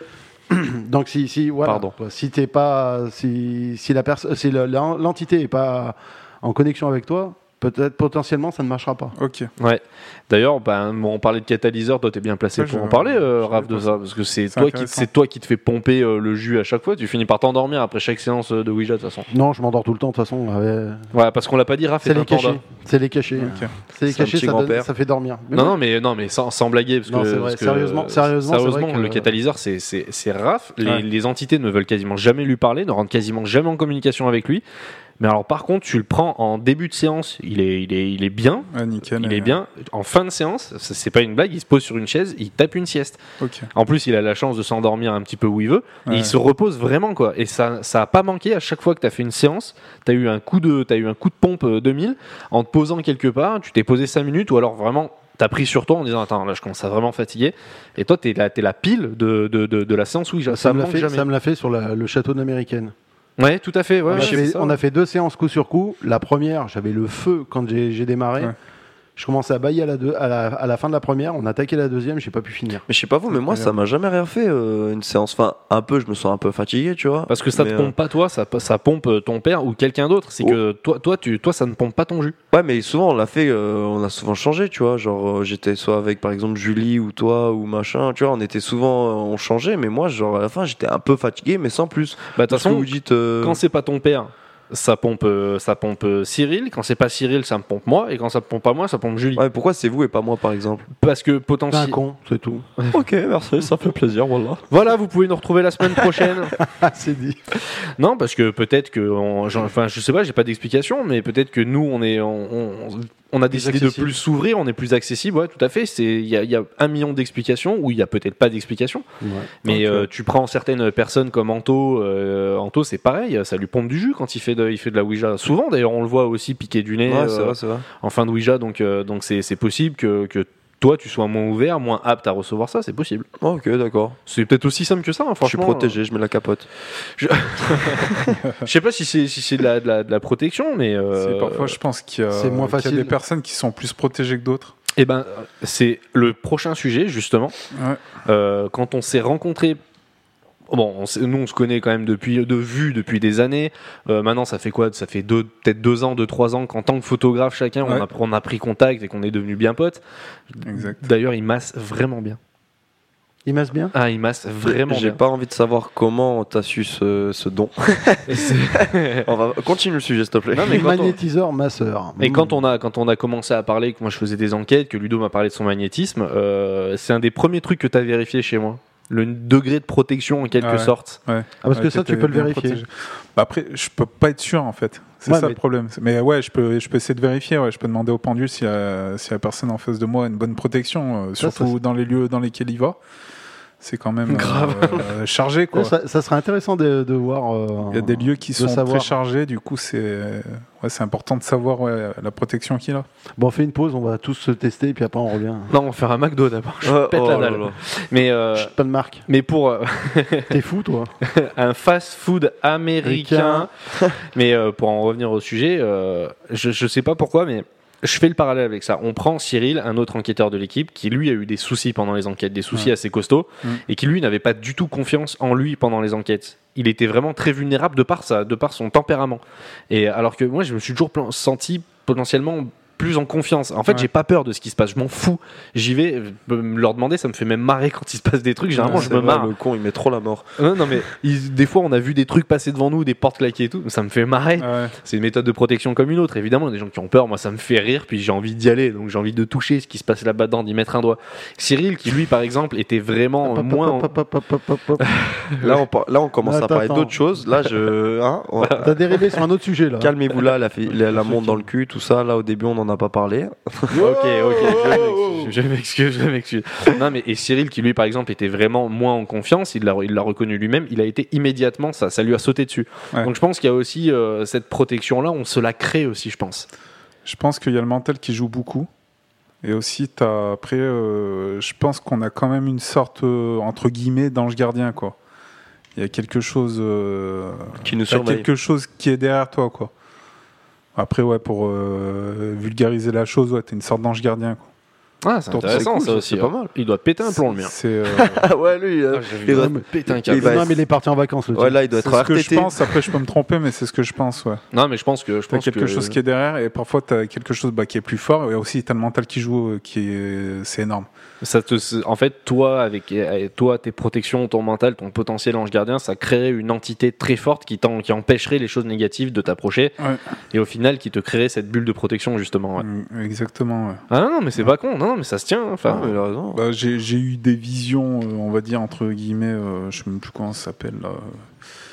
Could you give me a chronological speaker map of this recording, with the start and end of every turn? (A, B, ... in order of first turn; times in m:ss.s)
0:00.5-0:09.1 A
0:01.6-0:01.9 B
0:09.1-0:09.5 C
0:09.6-0:19.3 D
0:12.6-0:14.0 C
0:14.5-0:15.1 C
0:19.3-0:21.1 A
0:21.1-0:22.6 D
0:22.0-0:25.8 A
0:23.3-0:23.7 C
0:24.0-0:24.9 B
0:25.5-0:34.6 D
0:27.1-0:29.3 A
0:35.2-0:43.2 D
0:38.7-0:39.6 C
0:43.4-0:43.7 C
0:43.7-1:01.2 D
0:46.0-0:46.4 C
1:00.5-1:02.9 A
1:03.4-1:04.7 D
1:04.1-1:08.5 A
1:09.2-1:12.8 A
1:12.9-1:17.9 B
1:17.3-1:22.3 D
1:22.5-1:33.6 B
1:32.4-1:39.4 D
1:39.3-1:40.8 B
1:41.0-1:42.0 D
1:41.7-1:42.6 A
1:42.9-1:44.6 B
1:44.7-1:46.5 D
1:46.6-1:47.4 A
1:48.0-1:59.0 D
1:53.5-1:54.1 A
1:59.2-1:59.5 A
1:59.6-2:13.3 D
1:59.7-2:00.1 C
2:07.0-2:07.8 B
2:13.4-2:14.2 B
2:14.2-2:16.0 D
2:15.4-2:16.7 B
2:17.0-2:21.8 D
2:18.1-2:18.4 B
2:18.4-2:18.7 C
2:21.2-2:24.7 C
2:22.3-2:23.1 A
2:25.0-2:27.5 D
2:27.7-2:28.0 C
2:28.2-2:29.8 D
2:30.7-2:42.4 D
2:40.6-2:41.0 C
2:43.4-2:43.9 A
2:43.9-2:45.2 D
2:44.6-2:51.1 B
2:48.3-2:49.3 D
2:50.5-2:51.2 D
2:50.6-2:52.6 A
2:52.2-3:01.2 D
3:00.6-3:13.0 C
3:01.6-3:02.8 A
3:05.3-3:05.6 A
3:11.4-3:11.7 A
3:13.8-3:15.9 C
3:14.3-3:15.1 D
3:15.7-3:19.1 A
3:17.9-3:23.0 C
3:23.4-3:25.7 A
3:25.7-3:28.7 D
3:26.8-3:27.8 B
3:28.5-3:29.2 A
3:29.3-3:30.6 D
3:30.5-3:31.1 A
3:31.2-3:59.5 D
3:33.0-3:33.7 A
3:58.8-3:59.1 C
3:58.8-4:00.5 B
4:00.6-4:14.1 D
4:04.6-4:04.9 C
4:13.4-4:15.0 A
4:15.0-4:15.8 D
4:15.6-4:19.0 B
4:16.4-4:17.1 A
4:18.6-4:18.9 D
4:18.8-4:20.1 A
4:20.0-4:24.0 B
4:21.2-4:21.6 A
4:23.9-4:36.7 D
4:24.0-4:25.3 A
4:37.2-4:38.9 C
4:39.6-4:45.2 C
4:46.0-4:49.9 C
4:47.8-4:48.5 B
4:51.0-4:54.6 C
4:55.2-4:57.7 D
4:55.5-4:55.9 C
4:55.6-4:56.7 B
4:57.2-4:58.5 C
4:58.1-5:00.8 B
4:59.1-5:00.7 D
4:59.5-5:01.8 A
5:01.5-5:03.2 B
5:02.0-5:04.6 C
5:04.7-5:06.2 D
5:05.5-5:11.1 C
5:11.4-5:19.9 D
5:20.5-5:22.8 D
5:22.8-5:24.0 C
5:24.1-5:26.1 D
5:25.8-5:26.6 B
5:26.5-5:31.4 C